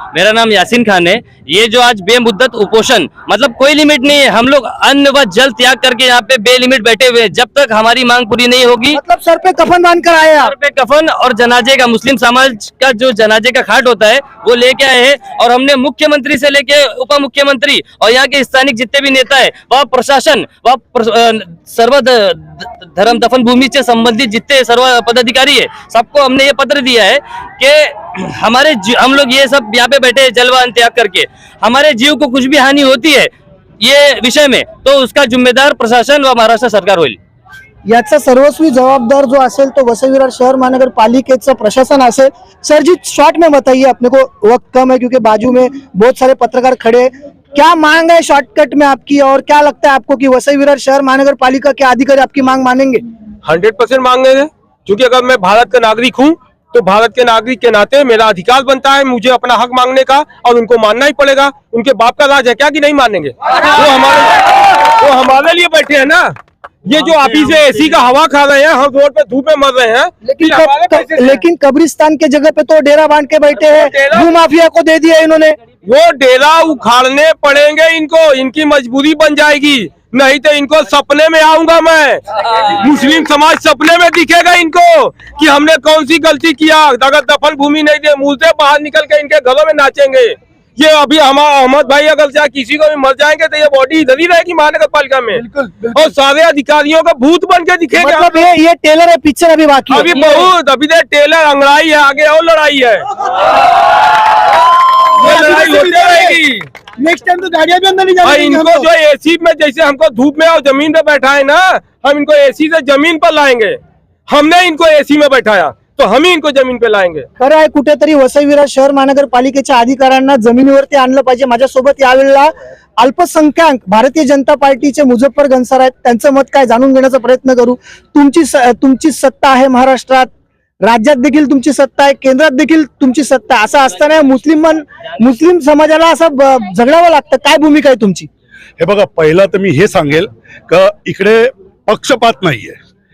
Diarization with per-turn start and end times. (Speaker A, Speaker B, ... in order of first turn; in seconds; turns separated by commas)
Speaker A: 0.1-9.0, Speaker B: 8.9-10.5, Speaker A: 10.4-37.2, Speaker B: 37.9-53.0, Speaker C: 53.4-66.3, Speaker C: 66.9-71.4, Speaker B: 70.3-75.6, Speaker C: 73.6-74.3, Speaker C: 75.8-95.4, Speaker D: 95.4-96.1, Speaker C: 95.9-98.3, Speaker B: 98.0-100.5, Speaker C: 99.9-103.1, Speaker C: 105.2-106.7, Speaker D: 105.2-106.4, Speaker D: 107.0-108.9, Speaker C: 108.2-117.3, Speaker B: 117.4-130.3, Speaker B: 130.8-138.3, Speaker E: 138.8-142.8